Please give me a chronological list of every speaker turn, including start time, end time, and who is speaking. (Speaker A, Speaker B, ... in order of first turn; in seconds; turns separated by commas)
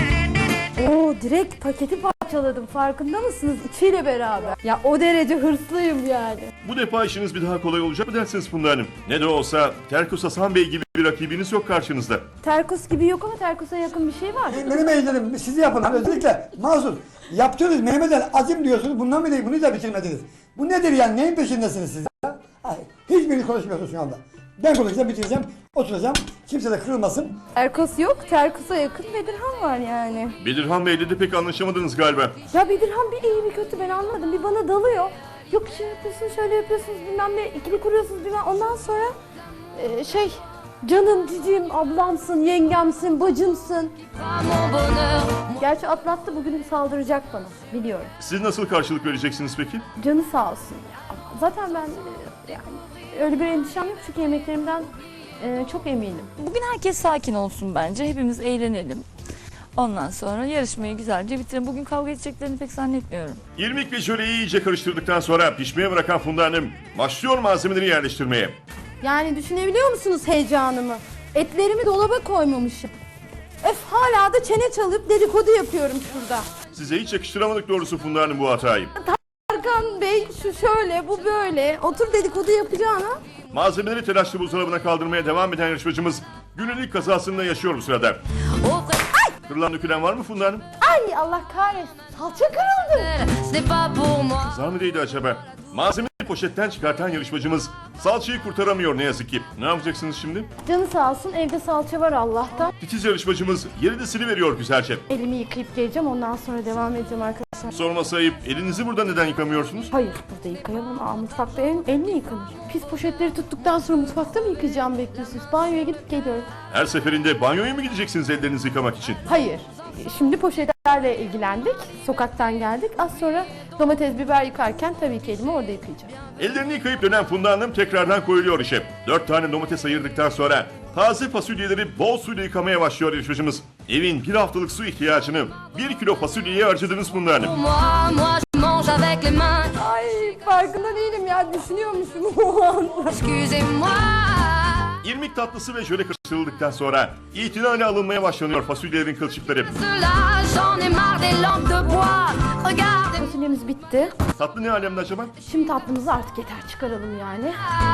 Speaker A: 0.8-6.5, Speaker B: 6.6-12.2, Speaker A: 12.4-14.9, Speaker C: 14.5-27.4, Speaker A: 27.6-30.4, Speaker B: 30.4-32.4, Speaker A: 32.5-39.1, Speaker A: 39.8-44.0, Speaker D: 44.3-45.5, Speaker A: 45.6-48.1, Speaker B: 48.2-49.8, Speaker A: 50.0-56.3, Speaker E: 56.4-59.1, Speaker E: 59.8-63.4, Speaker B: 63.6-68.6, Speaker A: 69.0-72.9, Speaker A: 73.6-76.5, Speaker B: 76.7-78.9, Speaker A: 79.0-83.2, Speaker B: 83.5-88.2, Speaker D: 88.6-89.0, Speaker B: 89.5-90.7, Speaker A: 90.8-93.2, Speaker D: 93.2-94.5, Speaker B: 94.5-100.5, Speaker A: 100.7-102.7, Speaker B: 102.8-105.0, Speaker A: 105.1-107.8, Speaker B: 107.7-109.9, Speaker A: 109.9-116.5, Speaker B: 116.7-119.2, Speaker A: 119.3-126.2, Speaker B: 126.4-137.6, Speaker D: 137.5-139.7, Speaker A: 139.8-143.2, Speaker D: 143.2-144.9, Speaker B: 145.0-149.7, Speaker D: 149.8-153.1, Speaker A: 153.1-154.1, Speaker B: 154.4-155.3, Speaker A: 155.4-157.7